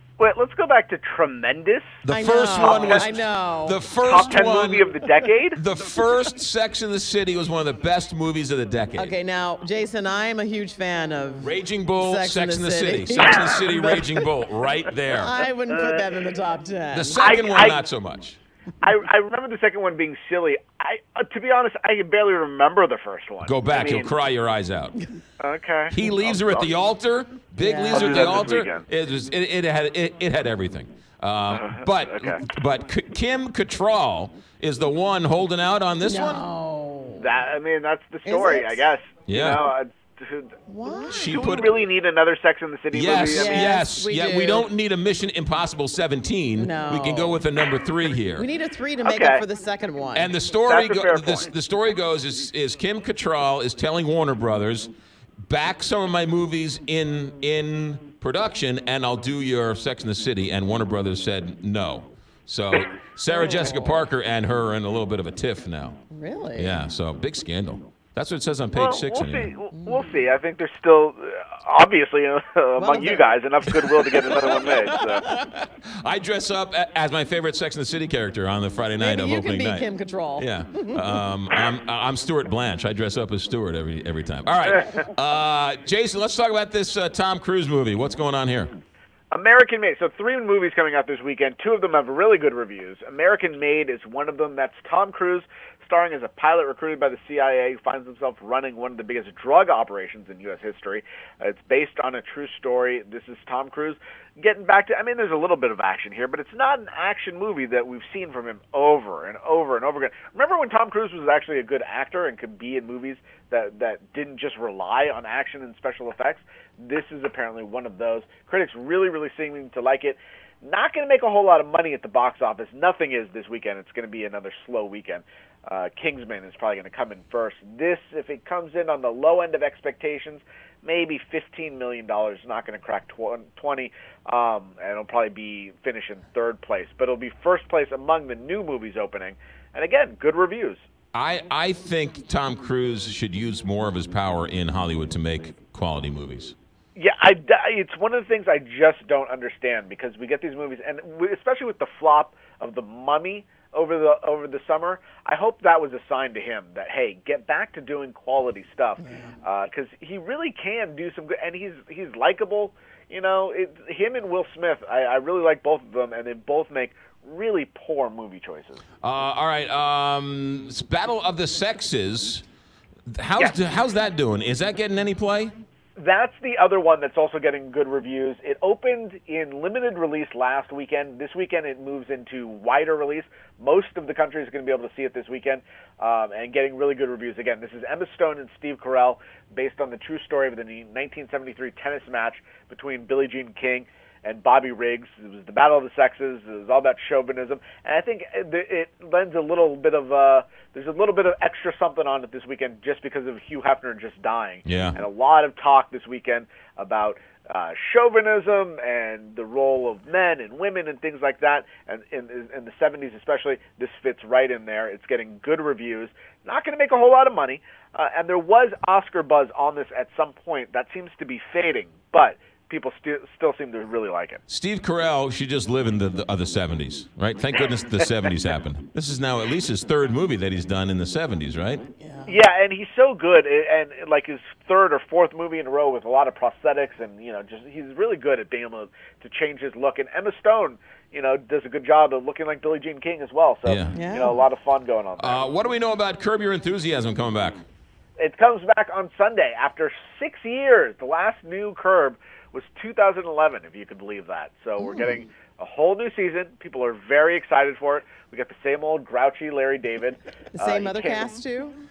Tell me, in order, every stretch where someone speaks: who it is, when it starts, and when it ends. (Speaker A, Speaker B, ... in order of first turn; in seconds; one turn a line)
Speaker A: 0.2-1.9
Speaker B: 2.0-4.9
Speaker C: 2.1-3.8
Speaker A: 2.6-3.1
Speaker A: 4.0-5.6
Speaker B: 5.5-9.2
Speaker C: 8.9-14.2
Speaker B: 11.4-15.4
Speaker C: 15.1-17.4
Speaker A: 15.7-16.2
Speaker B: 16.9-18.4
Speaker A: 17.1-17.8
Speaker A: 18.8-24.1
Speaker B: 23.4-24.9
Speaker A: 25.4-26.7
Speaker B: 25.9-36.4
Speaker C: 27.6-28.3
Speaker A: 27.9-28.9
Speaker A: 31.5-32.4
Speaker C: 36.0-37.2
Speaker A: 37.2-40.6
Speaker C: 38.2-38.9
Speaker B: 39.2-39.6
Speaker C: 40.7-41.4
Speaker B: 41.1-41.8
Speaker A: 41.2-43.8
Speaker B: 42.9-48.5
Speaker C: 43.3-44.7
Speaker C: 46.6-47.4
Speaker C: 48.4-50.3
Speaker A: 49.0-49.4
Speaker B: 50.1-54.9
Speaker A: 50.7-51.5
Speaker B: 55.5-66.0
Speaker C: 63.3-64.0
Speaker C: 66.1-66.8
Speaker B: 66.5-69.5
Speaker A: 68.7-75.2
Speaker C: 69.8-70.0
Speaker C: 72.8-73.3
Speaker B: 73.7-79.9
Speaker C: 74.8-75.4
Speaker C: 79.0-81.2
Speaker B: 80.4-88.7
Speaker A: 89.3-140.8
Speaker B: 141.1-146.5
Speaker A: 146.9-168.8
Speaker C: 159.0-159.3
Speaker B: 169.0-172.4
Speaker B: 173.1-175.5
Speaker A: 176.0-224.4
Speaker B: 204.6-205.0
Speaker B: 224.5-231.8
Speaker C: 232.0-232.3
Speaker A: 232.2-245.4
Speaker B: 243.6-243.9
Speaker C: 243.9-244.4
Speaker B: 245.2-247.6
Speaker A: 248.2-261.4
Speaker C: 254.8-255.1
Speaker C: 260.6-261.8